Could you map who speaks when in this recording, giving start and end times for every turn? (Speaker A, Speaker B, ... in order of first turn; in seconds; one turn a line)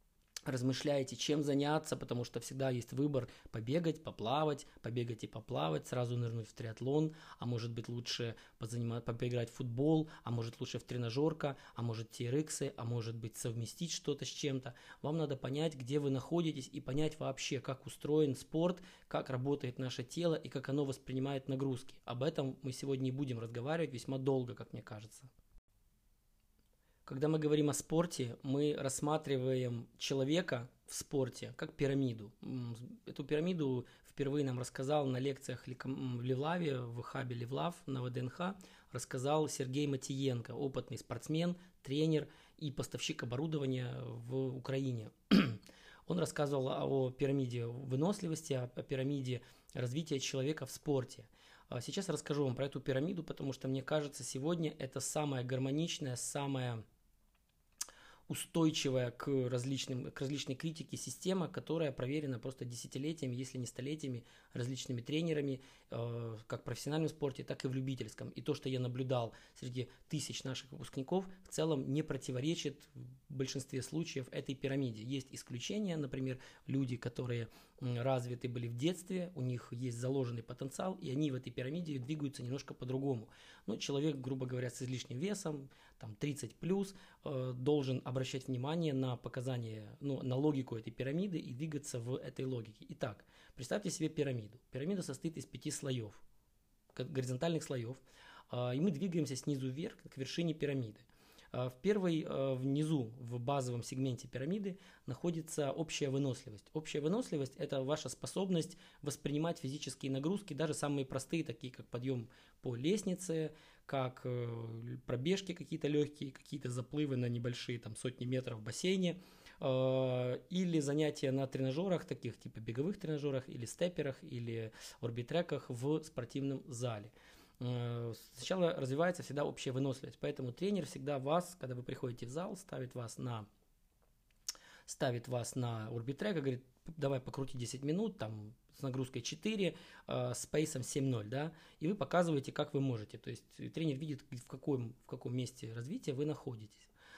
Speaker A: 0.5-25.3
Speaker A: 27.1-56.8
Speaker A: 58.3-96.2
Speaker A: 96.9-133.5
Speaker A: 134.8-146.9